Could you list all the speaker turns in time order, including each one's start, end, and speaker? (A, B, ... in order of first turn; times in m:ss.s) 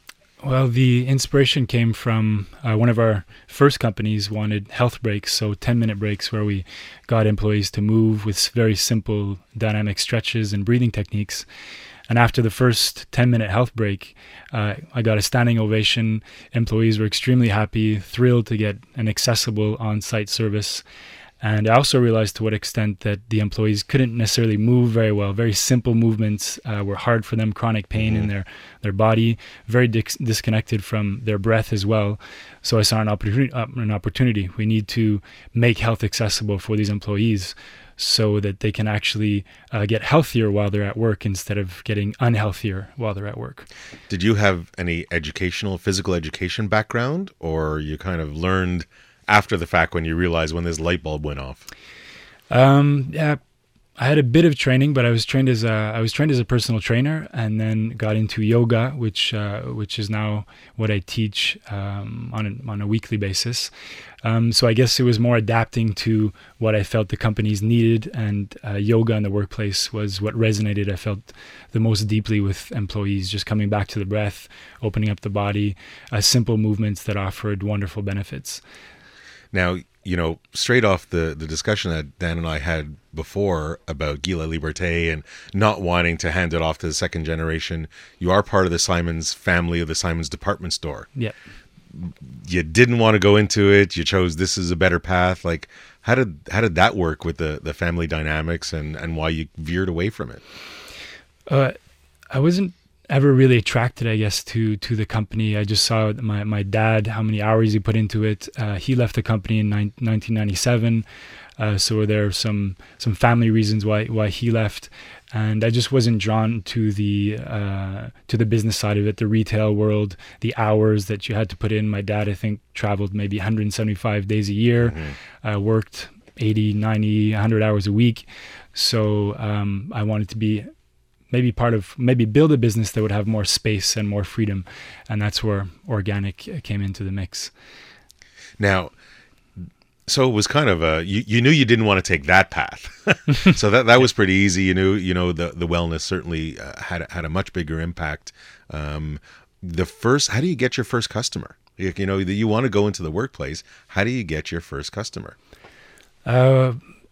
0:00.4-0:11.5 A
0:12.1-0:20.8 A
0:21.4-0:43.7 A
0:28.0-0:28.3 B
0:44.1-0:51.7 B
0:52.5-0:53.4 A
0:54.0-1:03.7 A
1:04.2-1:18.6 A
1:19.5-1:31.1 B
1:31.9-1:40.4 B
1:41.5-1:41.8 A
1:42.3-1:51.0 A
1:51.6-2:10.7 A
2:04.8-2:05.1 B
2:11.3-2:17.5 A
2:18.6-2:18.9 B
2:20.1-2:35.4 B
2:36.2-2:36.8 A